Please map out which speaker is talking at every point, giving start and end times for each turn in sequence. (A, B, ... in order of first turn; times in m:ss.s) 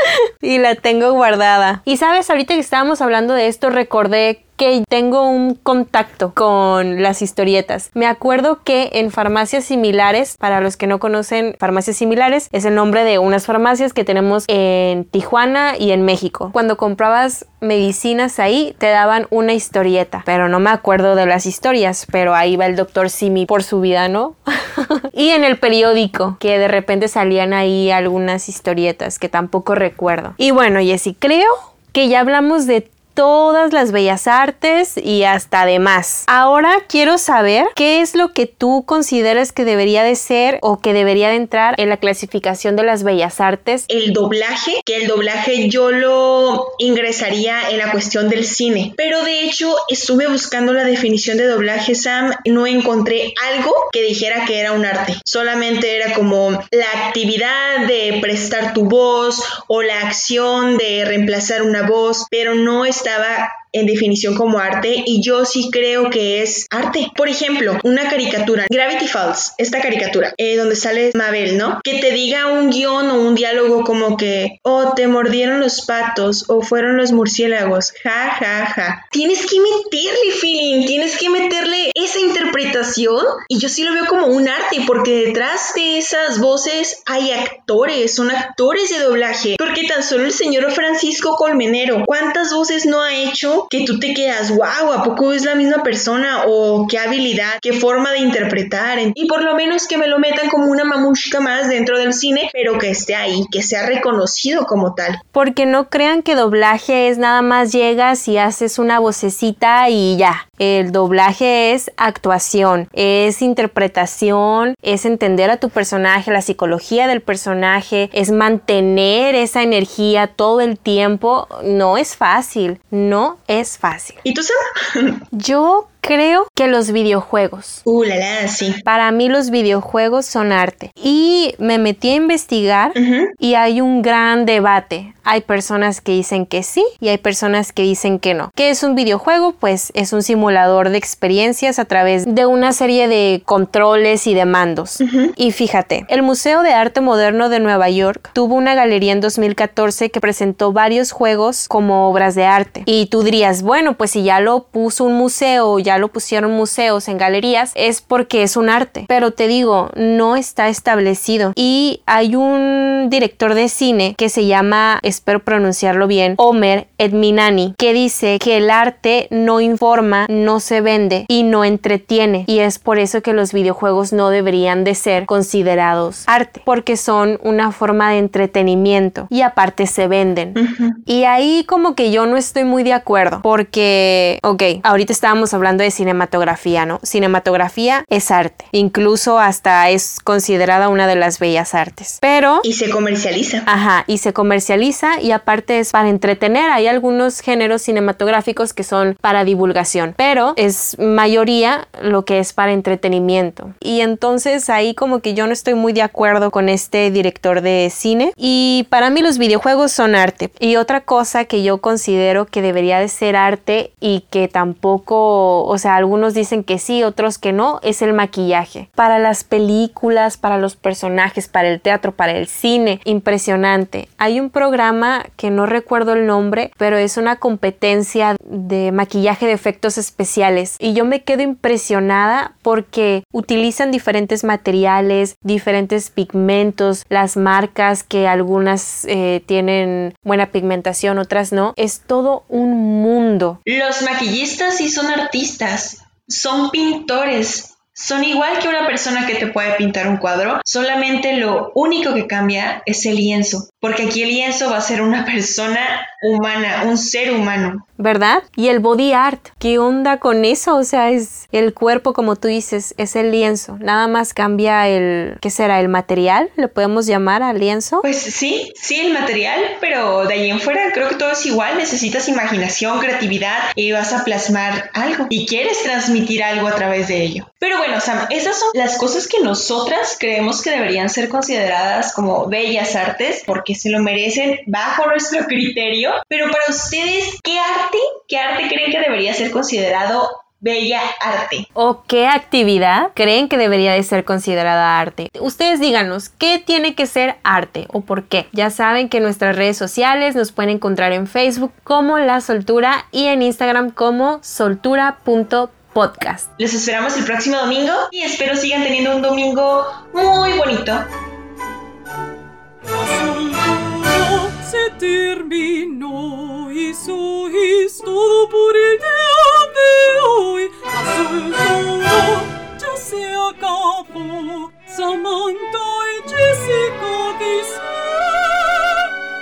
0:00.4-0:43.9 A
0:43.9-1:45.2 B
1:45.3-2:04.2 A
2:04.2-2:05.2 B
2:05.3-2:07.8 A
2:07.9-2:08.8 B
2:08.8-3:12.6 A
2:13.0-2:13.3 B
2:25.0-2:25.3 B
3:00.6-3:01.0 B
3:12.6-3:13.7 B
3:13.7-4:03.6 A
4:03.7-4:17.8 B
4:18.0-4:28.1 A
4:28.0-4:51.7 B
4:51.8-5:06.5 A
5:06.6-5:11.1 B
5:12.9-5:28.9 C